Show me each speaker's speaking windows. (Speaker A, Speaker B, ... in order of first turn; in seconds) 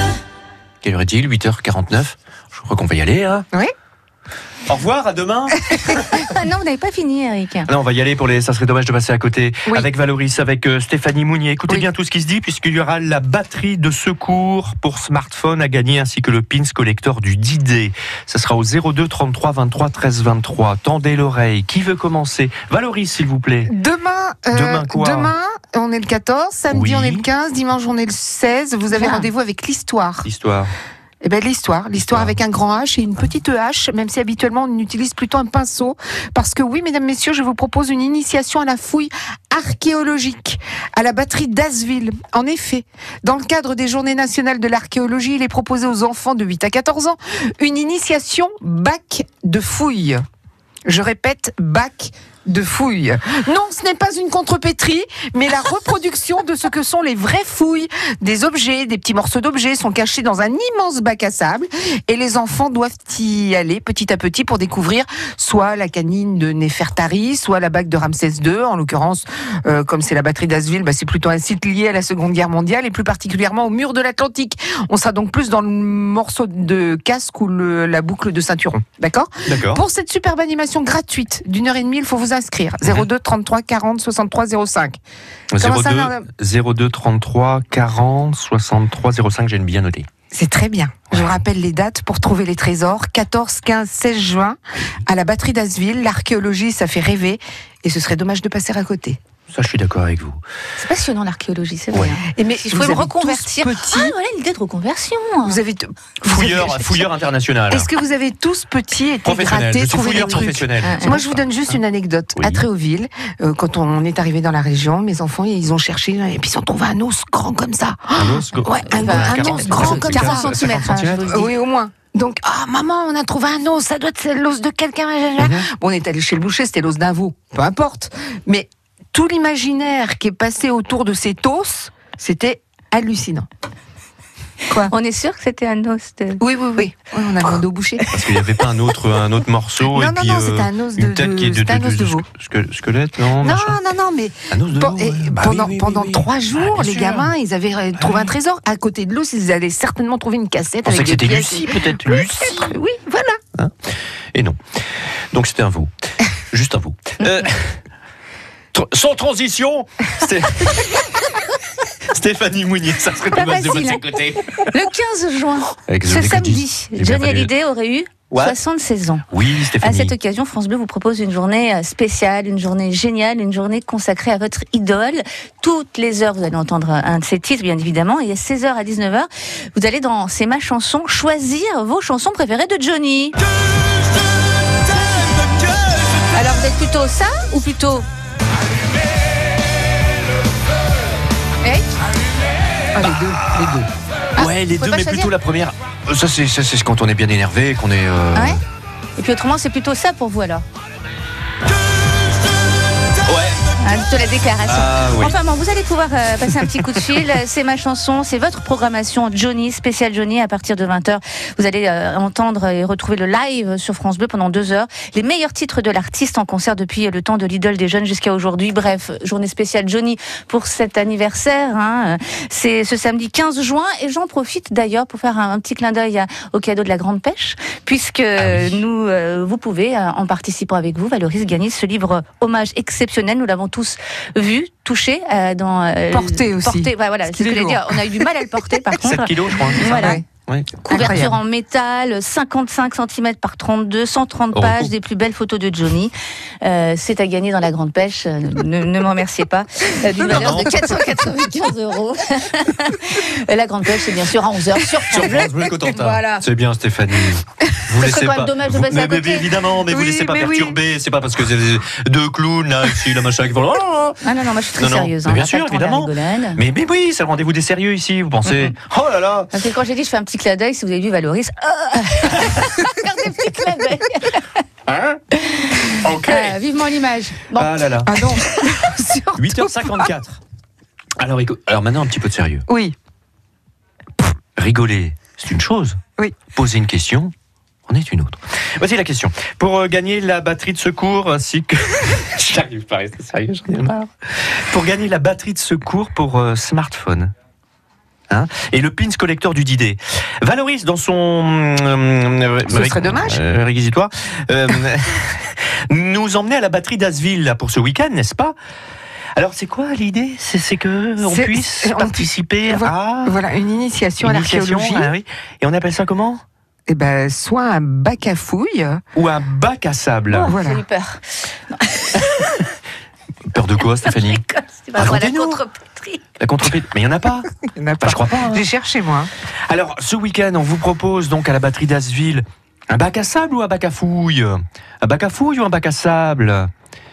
Speaker A: 0.8-3.5, 4.7-6.3, 7.7-23.7, 24.5-25.3, 26.7-27.2, 30.2-30.7, 31.9-32.4, 79.5-79.8, 85.5-90.1, 91.1-91.4, 99.5-100.4, 101.9-102.2, 106.3-107.9, 109.2-111.8, 112.4-112.7, 118.2-121.3, 125.4-125.7, 138.1-143.8, 144.5-147.3, 148.0-148.3, 150.8-152.8, 155.3-155.9, 156.5-157.8, 158.7-161.0, 162.1-164.7, 165.9-167.5, 168.3-168.6, 169.3-170.1, 194.4-198.6, 203.2-203.6, 204.7-205.3, 228.4-228.7, 239.0-241.3, 244.5-244.9, 250.2-250.8, 255.0-264.2, 264.8-269.5, 274.9-275.2, 275.9-276.6, 277.5-278.7, 279.4-280.4, 281.2-282.7, 284.6-286.0, 286.5-287.3, 287.9-297.3, 298.3-308.6, 309.4-313.4, 314.2-316.4, 319.2-320.6, 323.5-324.4, 325.0-325.6, 326.4-328.6, 329.7-336.7
Speaker B: 6.1-7.7, 28.9-29.3, 100.8-105.6, 110.1-111.2, 118.9-121.5, 134.7-136.4, 163.3-169.3, 169.8-183.4, 186.3-188.1, 194.4-195.3, 198.3-198.6, 199.2-200.6, 203.8-240.2, 240.9-256.4, 258.0-259.5, 264.2-266.6, 269.5-274.5, 275.3-277.8, 320.3-322.7, 324.0-326.2
Speaker C: 23.7-30.3, 31.2-50.2, 50.9-85.0, 85.6-86.3, 90.3-99.2, 102.3-104.2, 105.4-107.1, 107.7-133.5, 136.4-138.0, 139.9-142.3, 143.4-153.4, 192.9-193.9, 236.1-238.2, 239.8-240.2, 240.8-241.3, 259.9-260.8, 278.1-280.1, 282.7-283.0, 302.7-303.4, 311.2-315.1, 316.9-319.0, 320.4-320.8, 327.7-329.3